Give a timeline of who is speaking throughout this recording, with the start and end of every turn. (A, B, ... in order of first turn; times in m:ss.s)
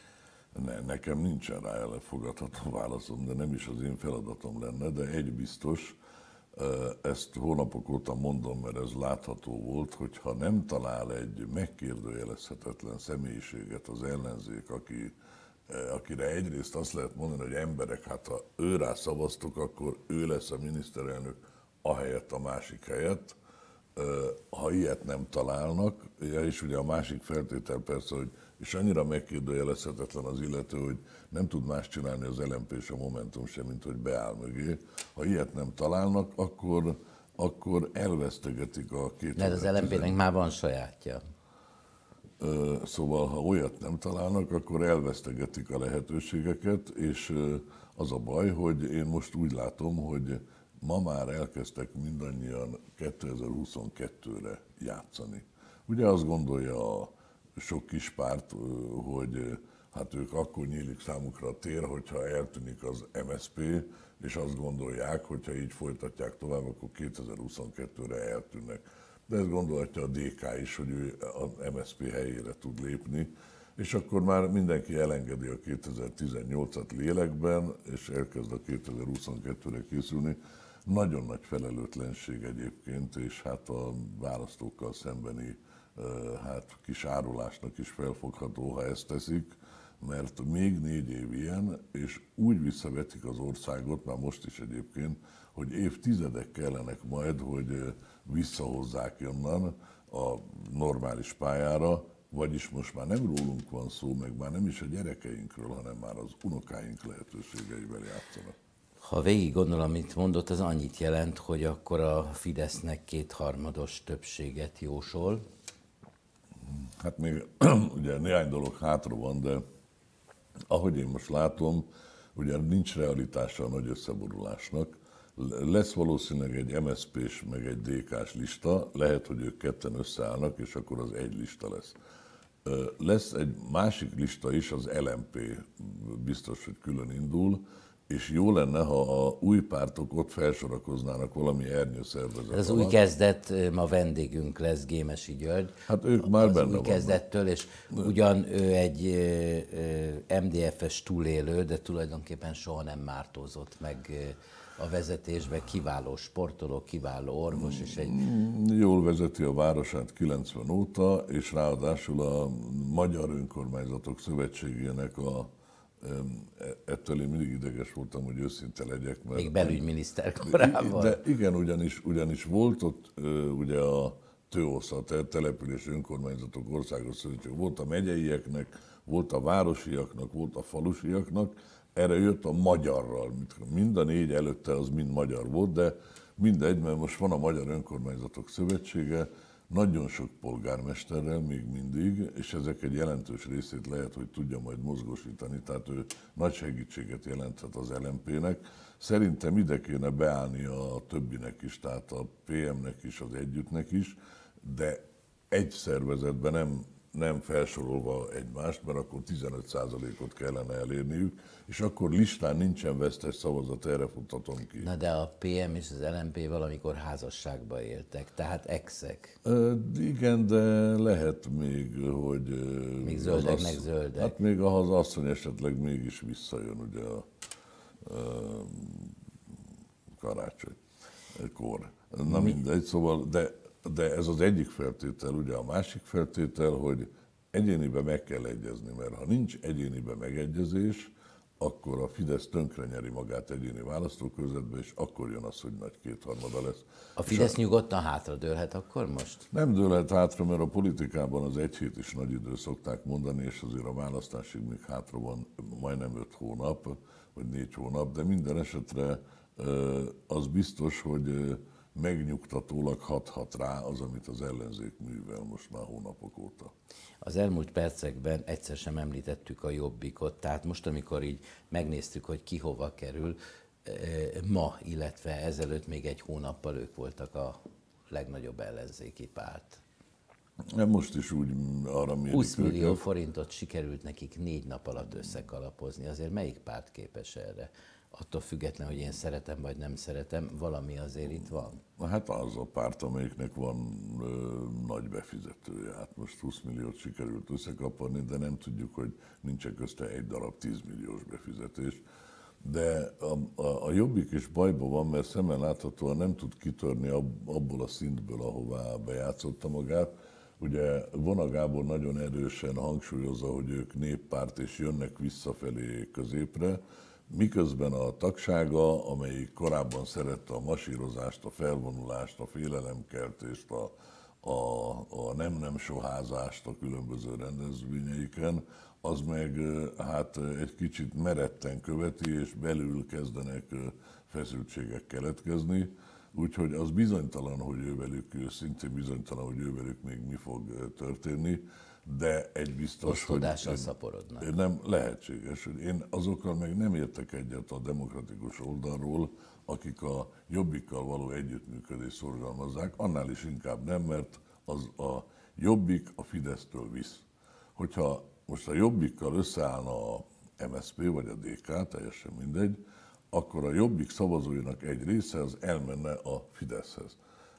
0:00.5-0:06.0 A
0:06.5-0:15.1 A
0:15.7-0:23.4 A
0:24.0-0:40.2 A
0:39.4-0:41.2 B
0:42.4-1:48.5 A
1:49.0-1:55.4 B
1:56.7-1:59.6 A
2:00.7-2:12.0 A
2:12.6-2:23.0 A
2:22.5-2:38.2 B
2:25.9-2:27.2 A
2:37.5-2:49.8 A
2:49.3-2:51.2 B
2:50.4-3:34.9 A
3:34.8-3:39.4 B
3:39.4-3:47.2 A
3:43.0-3:44.4 B
3:48.0-3:49.1 A
3:50.1-3:50.8 A
3:51.3-4:07.6 A
4:07.2-4:09.5 B
4:09.5-4:26.7 A
4:27.2-4:37.6 B
4:38.1-4:39.8 B
4:40.7-4:43.0 A
4:42.3-4:51.8 B
4:52.0-5:02.0 A
5:02.6-5:57.2 A
5:43.0-5:44.5 B
5:57.8-6:02.8 A
6:03.3-6:07.2 A